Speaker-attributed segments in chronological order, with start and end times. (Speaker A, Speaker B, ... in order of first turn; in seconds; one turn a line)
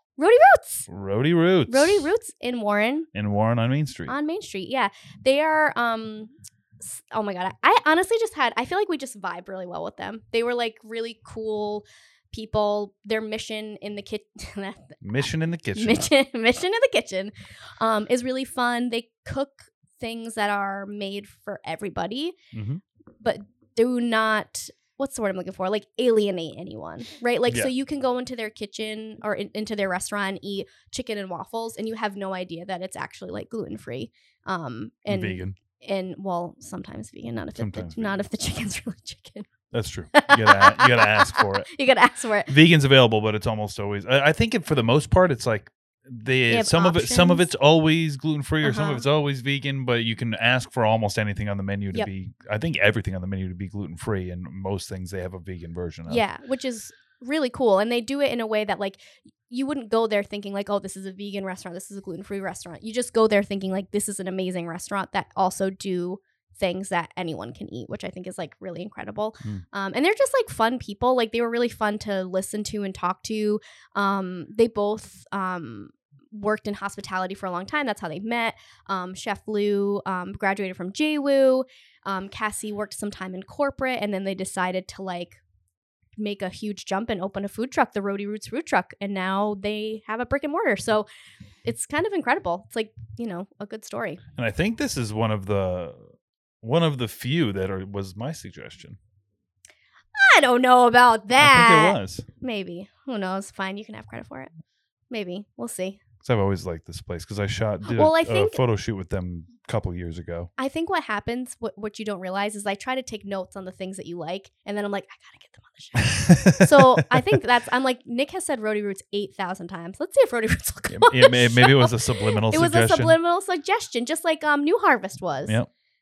Speaker A: 0.2-0.9
Speaker B: 0.9-2.1
Speaker A: 1.7-3.1
Speaker B: 3.1-4.2
Speaker A: 4.1-22.4
Speaker B: 15.0-16.1
Speaker B: 22.5-22.8
Speaker A: 23.2-39.5
Speaker B: 35.1-35.6
Speaker B: 37.6-38.2
Speaker B: 39.7-41.7
Speaker A: 40.1-42.5
Speaker B: 42.5-56.2
Speaker A: 46.5-47.4
Speaker A: 48.6-49.1
Speaker A: 56.1-85.4
Speaker A: 86.2-91.1
Speaker A: 91.7-94.2
Speaker B: 94.4-96.1
Speaker B: 96.6-99.0
Speaker A: 100.2-104.5
Speaker B: 101.4-102.2
Speaker A: 105.1-106.0
Speaker B: 106.2-110.5
Speaker A: 107.9-108.6
Speaker A: 110.6-125.6
Speaker B: 116.0-117.1
Speaker B: 120.9-123.2